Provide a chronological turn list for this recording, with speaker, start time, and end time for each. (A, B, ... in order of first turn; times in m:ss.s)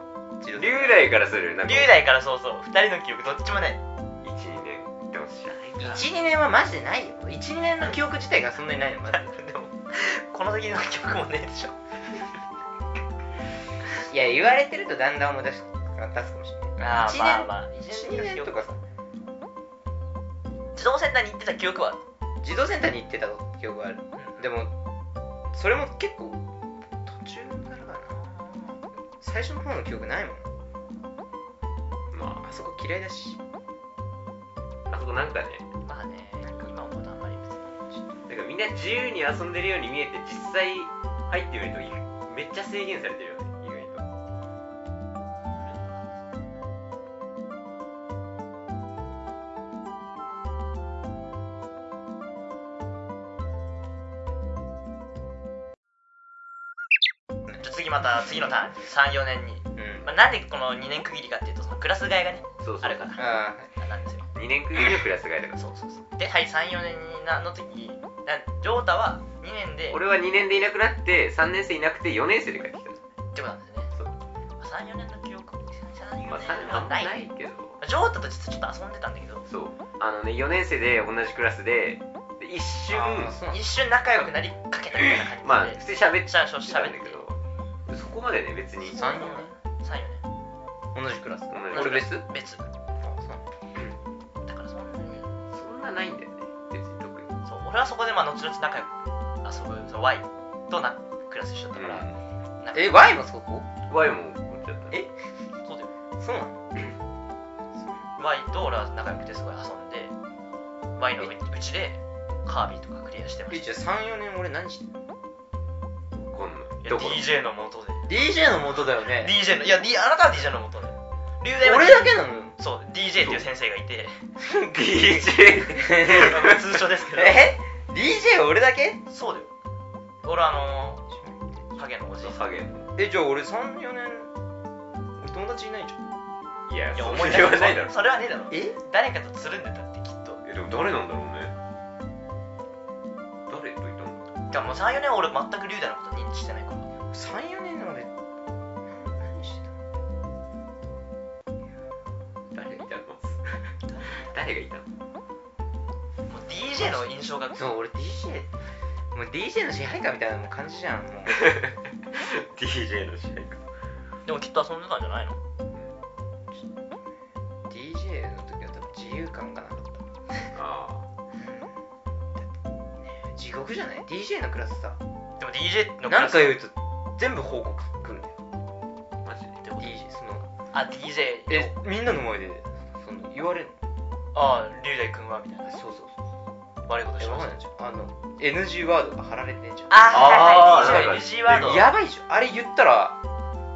0:00.4-0:01.1 A
0:00.6-0:02.0 B
0:01.6-0:03.8 C
0:04.2-0:06.0 B
0:05.8-0:09.3 A
0:09.1-0:11.8 C
0:14.0-0:18.8 A
0:16.8-0:18.6 C
0:20.8-0:22.0 C
0:22.4-0:24.7 A
0:24.2-0:24.4 C
0:25.5-0:26.4 A
0:27.0-0:30.5 A
0:32.1-0:32.4 B
0:32.4-0:33.4 A
0:34.9-0:35.7 B
0:35.8-0:37.8 C
0:38.3-0:44.0 B
0:45.6-0:46.1 C
0:57.6-1:04.3 C
0:59.8-1:00.1 A
1:02.6-1:03.1 B
1:03.2-1:03.7 A
1:04.4-1:05.6 B
1:05.6-1:10.0 C
1:09.9-1:13.0 B
1:13.3-1:13.9 C
1:14.6-1:17.2 C
1:16.3-1:17.8 B
1:17.8-1:19.4 C
1:19.5-1:23.4 B
1:22.9-1:23.6 A
1:23.5-1:27.2 C
1:25.4-1:29.0 B
1:28.8-1:29.5 A
1:28.9-1:30.2 C
1:30.9-1:32.2 A
1:31.5-1:32.1 B
1:31.7-1:32.6 C
1:33.0-1:33.4 A
1:34.4-1:35.3 C
1:35.5-1:37.3 B
1:37.4-1:42.1 C
1:41.8-1:42.2 B
1:42.6-1:43.1 C
1:42.7-1:43.7 A
1:43.9-1:45.0 B
1:45.6-1:45.9 C
1:46.2-1:46.6 A
1:48.2-1:50.1 C
1:51.0-1:53.7 C
1:53.5-1:54.9 A
1:56.3-1:57.3 B
1:56.8-1:58.1 C
1:58.1-1:59.4 A
1:58.8-2:04.2 C
2:01.5-2:02.6 A
2:04.4-2:06.6 B
2:05.7-2:06.5 A
2:05.8-2:07.5 C
2:07.1-2:09.0 A
2:09.1-2:09.5 C
2:10.2-2:11.0 C
2:11.1-2:11.7 A
2:11.8-2:12.4 C
2:12.1-2:12.9 B
2:13.0-2:14.3 A
2:15.2-2:16.0 A
2:16.7-2:18.0 B
2:16.9-2:20.4 C
2:18.5-2:18.8 A
2:20.4-2:21.5 B
2:23.5-2:24.2 B
2:24.5-2:26.9 C
2:27.1-2:28.1 A
2:28.8-2:29.7 A
2:32.5-2:33.7 B
2:33.9-2:34.4 C
2:34.2-2:34.9 B
2:36.3-2:37.7 C
2:36.8-2:38.5 A
2:39.1-2:41.5 A
2:41.3-2:43.6 B
2:44.2-2:45.4 C
2:46.5-2:46.9 A
2:47.7-2:50.0 A
2:50.5-2:51.0 B
2:51.4-2:51.8 A
2:53.0-2:55.0 A
2:55.4-2:56.6 C
2:56.1-2:58.3 A
2:59.2-2:59.6 B
2:59.6-2:59.9 C
2:59.8-3:00.5 A
3:00.7-3:01.7 C
3:01.5-3:03.8 A
3:04.3-3:05.8 C
3:05.7-3:06.2 A
3:06.9-3:07.5 C
3:07.2-3:13.2 A
3:09.9-3:11.9 C
3:10.1-3:11.8 B